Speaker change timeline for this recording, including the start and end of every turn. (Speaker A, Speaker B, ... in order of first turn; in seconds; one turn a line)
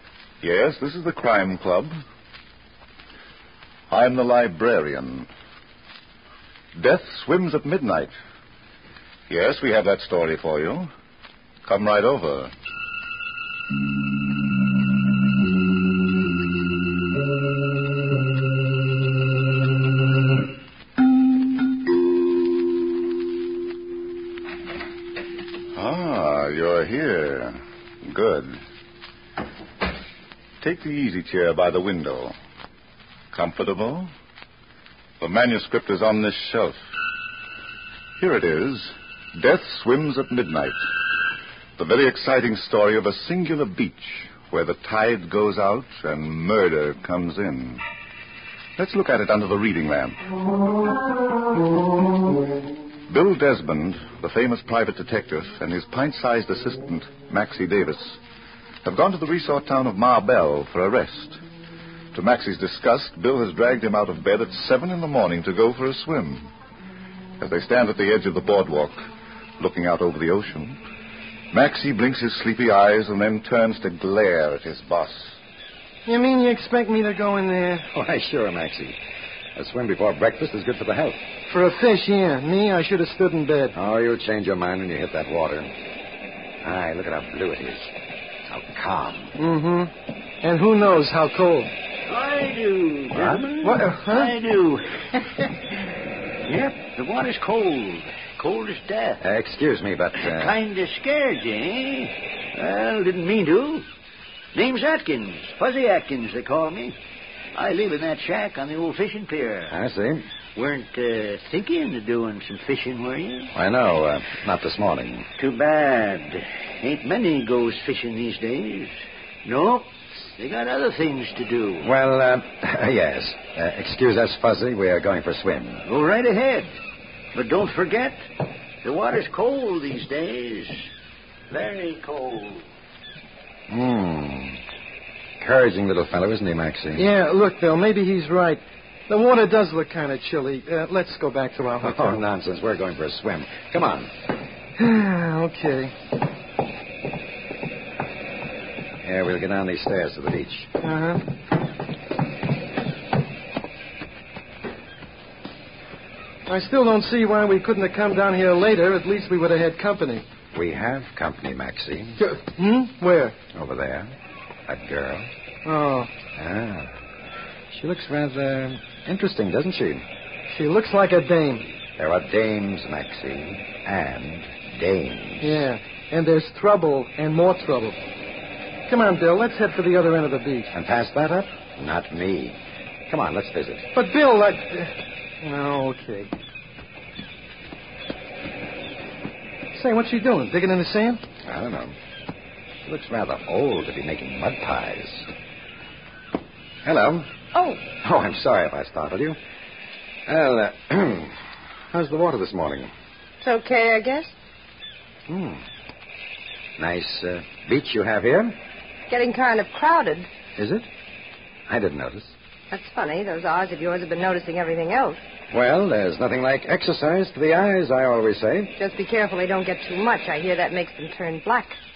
Speaker A: 0.4-2.0
Speaker A: 3.9-5.3
Speaker A: 6.8-8.2
Speaker A: 9.3-10.9
Speaker A: 11.7-12.5
Speaker A: 25.8-28.6
Speaker A: 30.6-32.4
Speaker A: 33.3-34.1
Speaker A: 35.2-36.8
Speaker A: 38.2-40.8
Speaker A: 41.8-47.8
Speaker A: 48.8-50.2
Speaker A: 53.1-58.2
Speaker A: 58.8-61.4
Speaker A: 62.1-66.5
Speaker A: 67.4-69.0
Speaker A: 69.6-70.8
Speaker A: 71.5-75.4
Speaker B: 76.1-77.9
Speaker C: 77.9-79.0
Speaker C: 79.6-81.2
Speaker B: 81.5-83.7
Speaker C: 83.7-85.7
Speaker C: 86.6-87.9
Speaker C: 88.5-89.3
Speaker B: 89.4-91.7
Speaker D: 92.1-95.5
Speaker C: 93.1-93.4
Speaker B: 93.6-94.3
Speaker D: 96.5-99.2
Speaker C: 99.2-100.6
Speaker D: 100.2-103.9
Speaker D: 104.5-107.0
Speaker D: 107.5-109.8
Speaker C: 109.7-110.3
Speaker D: 110.5-113.5
Speaker C: 113.5-115.3
Speaker D: 115.4-121.9
Speaker C: 121.8-125.8
Speaker D: 125.8-126.7
Speaker D: 127.3-128.2
Speaker D: 128.8-130.9
Speaker D: 131.5-132.7
Speaker C: 133.7-134.6
Speaker C: 135.4-137.1
Speaker B: 137.0-142.2
Speaker C: 141.8-144.1
Speaker B: 144.8-145.9
Speaker C: 149.0-150.7
Speaker B: 150.8-151.2
Speaker B: 156.5-160.2
Speaker C: 160.5-162.2
Speaker B: 162.2-163.4
Speaker C: 163.5-164.1
Speaker C: 164.7-165.3
Speaker B: 165.7-166.1
Speaker C: 166.3-166.9
Speaker C: 167.7-170.1
Speaker B: 170.5-171.7
Speaker C: 171.9-175.7
Speaker B: 175.4-178.0
Speaker B: 178.9-180.7
Speaker C: 180.7-183.9
Speaker B: 183.9-186.3
Speaker B: 189.7-191.2
Speaker C: 191.4-192.0
Speaker C: 192.8-195.3
Speaker C: 196.8-197.3
Speaker C: 197.8-199.4
Speaker C: 200.3-201.4
Speaker C: 201.9-202.9
Speaker E: 203.4-204.3
Speaker C: 205.3-205.6
Speaker C: 206.8-208.6
Speaker E: 209.1-210.3
Speaker C: 210.6-210.9
Speaker C: 211.7-212.3
Speaker E: 212.7-215.2
Speaker C: 215.5-218.7
Speaker E: 218.8-221.8